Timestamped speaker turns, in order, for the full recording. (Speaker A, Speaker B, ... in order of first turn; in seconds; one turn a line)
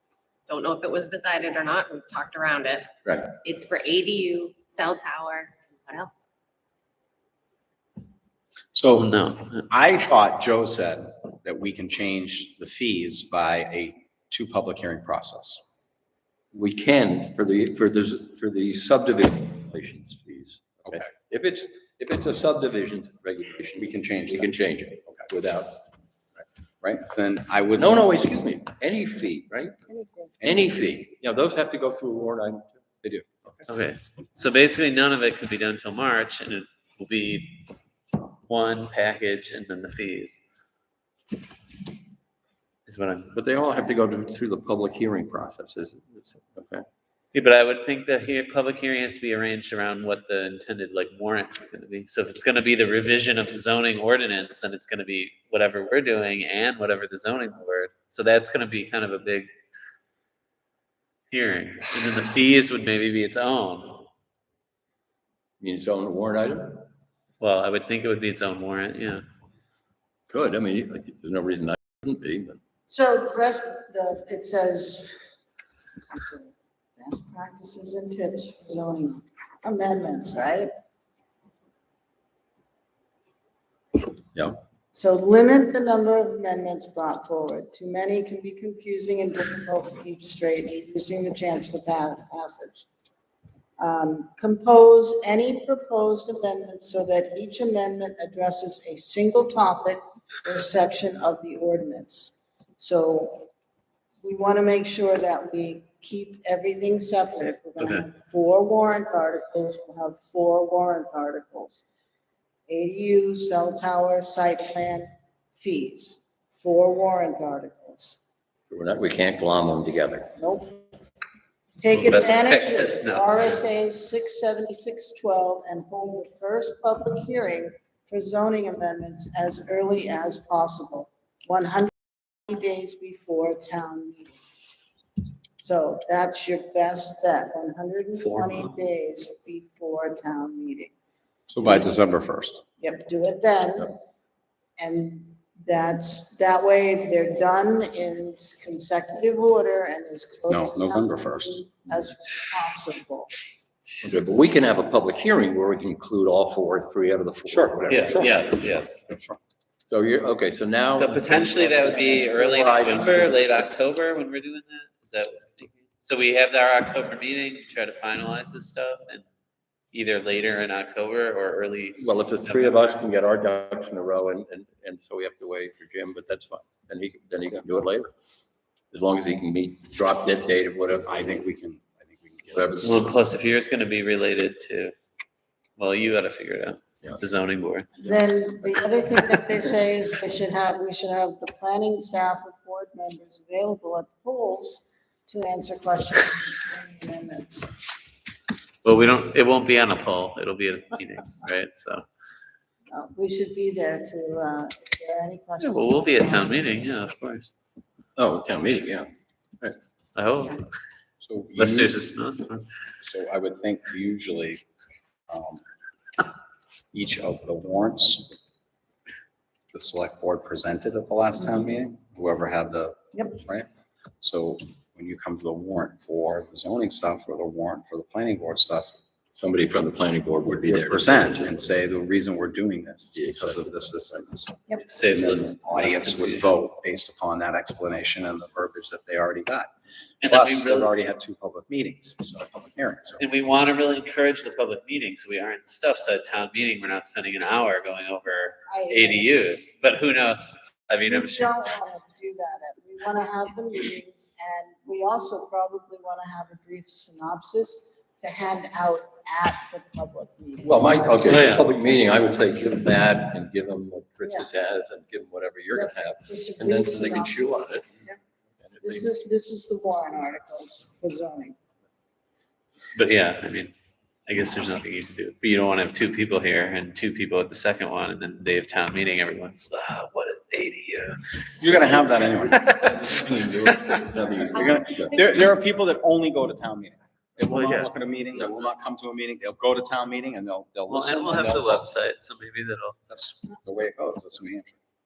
Speaker A: 0.5-6.2
Speaker B: 3.0-3.4
Speaker C: 8.7-9.2
Speaker D: 8.9-9.6
Speaker C: 9.7-15.6
Speaker B: 16.5-25.8
Speaker C: 23.8-24.6
Speaker C: 25.1-25.3
Speaker C: 26.8-28.2
Speaker B: 27.8-29.8
Speaker E: 29.9-30.5
Speaker B: 30.4-32.8
Speaker C: 33.0-33.6
Speaker D: 33.7-37.7
Speaker D: 38.4-40.4
Speaker D: 42.9-43.3
Speaker B: 43.3-46.8
Speaker D: 47.3-59.5
Speaker D: 61.3-64.1
Speaker B: 65.6-66.9
Speaker D: 67.4-69.2
Speaker B: 70.3-72.6
Speaker E: 72.9-75.2
Speaker E: 76.1-80.7
Speaker E: 84.9-92.9
Speaker E: 93.8-103.5
Speaker E: 104.2-111.8
Speaker D: 107.8-108.0
Speaker E: 112.7-118.2
Speaker B: 118.7-120.3
Speaker E: 120.4-120.9
Speaker E: 121.8-131.9
Speaker D: 121.9-123.6
Speaker E: 132.5-134.4
Speaker E: 135.6-140.9
Speaker D: 138.2-138.7
Speaker C: 141.5-142.6
Speaker E: 142.8-144.0
Speaker E: 144.8-153.3
Speaker C: 150.5-152.0
Speaker B: 154.0-158.5
Speaker C: 157.4-159.4
Speaker D: 157.9-159.0
Speaker B: 159.9-163.7
Speaker D: 160.9-169.2
Speaker D: 169.9-173.0
Speaker B: 172.0-178.1
Speaker B: 178.9-181.2
Speaker C: 181.0-183.1
Speaker B: 182.6-182.9
Speaker D: 182.8-184.9
Speaker D: 185.8-187.9
Speaker E: 188.0-197.7
Speaker D: 198.8-202.1
Speaker E: 202.9-206.8
Speaker D: 205.6-207.5
Speaker B: 208.2-209.8
Speaker D: 210.2-210.6
Speaker C: 211.2-212.0
Speaker D: 211.6-212.7
Speaker C: 213.0-214.6
Speaker C: 215.3-215.6
Speaker C: 216.9-218.3
Speaker C: 219.7-223.7
Speaker E: 223.1-223.4
Speaker C: 224.2-229.0
Speaker B: 229.3-231.6
Speaker C: 230.5-239.7
Speaker B: 233.1-233.7
Speaker D: 234.8-236.5
Speaker D: 240.2-240.9
Speaker C: 240.3-243.2
Speaker D: 243.2-251.6
Speaker E: 248.7-249.4
Speaker E: 251.1-261.0
Speaker B: 260.6-267.8
Speaker D: 261.3-261.7
Speaker E: 264.2-264.5
Speaker E: 265.7-268.2
Speaker B: 268.6-269.1
Speaker E: 268.8-271.6
Speaker D: 272.9-273.7
Speaker D: 274.3-281.4
Speaker C: 281.6-282.9
Speaker B: 282.7-285.2
Speaker C: 284.5-291.8
Speaker A: 284.7-285.3
Speaker D: 287.5-287.9
Speaker D: 290.9-293.0
Speaker C: 293.1-294.8